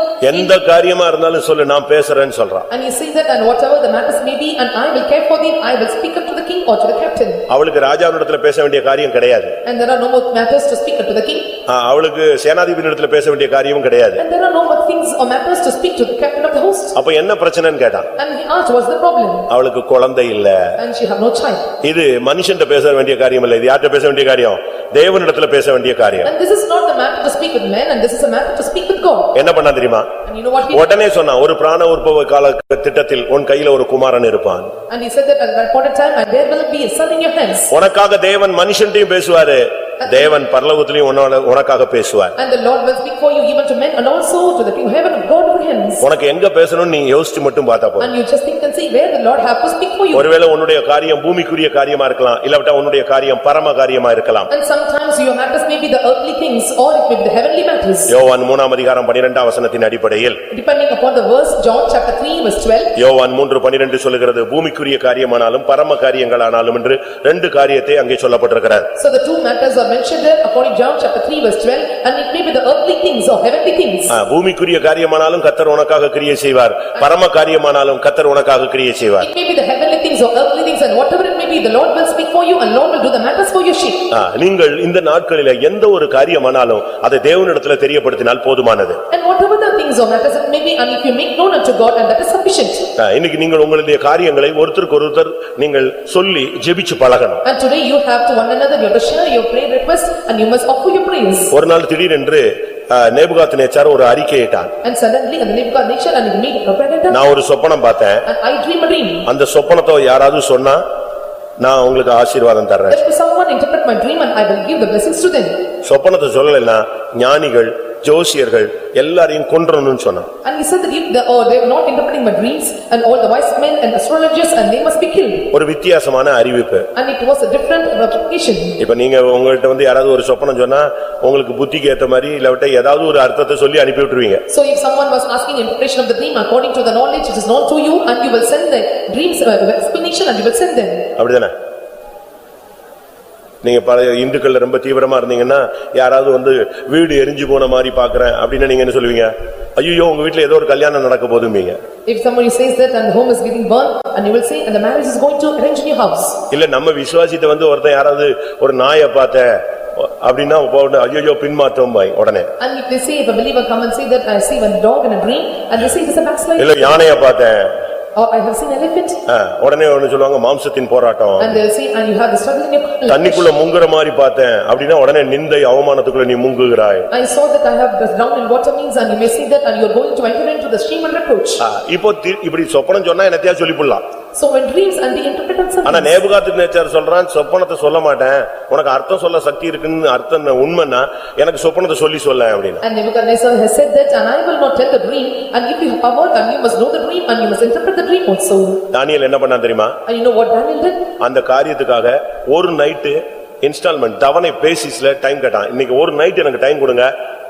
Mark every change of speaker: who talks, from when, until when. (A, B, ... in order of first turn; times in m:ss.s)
0:00.2-0:02.7 A
0:02.7-0:07.4 B
0:07.5-0:09.6 A
0:09.6-0:11.5 B
0:11.7-0:14.2 A
0:14.2-0:17.0 B
0:17.0-0:18.1 A
0:18.2-0:19.5 B
0:19.5-0:20.8 A
0:20.8-0:21.7 B
0:21.8-0:26.3 A
0:26.2-0:29.3 B
0:29.3-0:30.1 A
0:30.2-0:30.9 B
0:30.7-0:34.7 A
0:34.9-0:37.7 B
0:37.7-0:42.3 A
0:40.0-0:40.3 B
0:42.4-0:46.0 B
0:46.0-0:48.1 A
0:48.0-0:50.3 B
0:50.1-0:54.5 A
0:54.5-0:58.1 B
0:58.1-1:00.4 A
1:00.5-1:03.0 B
1:03.0-1:08.9 A
1:09.0-1:14.2 B
1:14.1-1:19.2 A
1:19.2-1:24.1 B
1:24.1-1:29.0 A
1:29.1-1:32.9 B
1:33.0-1:37.4 A
1:37.4-1:41.5 B
1:41.5-1:44.7 A
1:44.8-1:47.2 B
1:47.1-1:48.2 A
1:48.2-1:49.3 B
1:49.3-1:50.8 A
1:51.6-1:53.0 A
1:52.9-1:55.6 B
1:55.8-2:00.3 A
2:00.4-2:05.5 B
2:05.5-2:06.9 A
2:06.9-2:08.8 B
2:08.8-2:14.4 A
2:14.5-2:21.1 B
2:21.2-2:21.5 A
2:23.6-2:31.8 A
2:32.0-2:36.4 B
2:36.5-2:42.5 A
2:42.6-2:47.0 B
2:46.6-2:47.7 A
2:48.1-2:49.2 B
2:49.3-2:51.6 A
2:51.4-2:53.5 B
2:53.1-2:57.1 A
2:57.1-3:01.6 B
3:01.6-3:04.0 A
3:04.3-3:06.2 B
3:05.8-3:12.8 A
3:12.8-3:18.8 B
3:18.9-3:20.0 A
3:20.0-3:21.1 B
3:21.2-3:27.1 A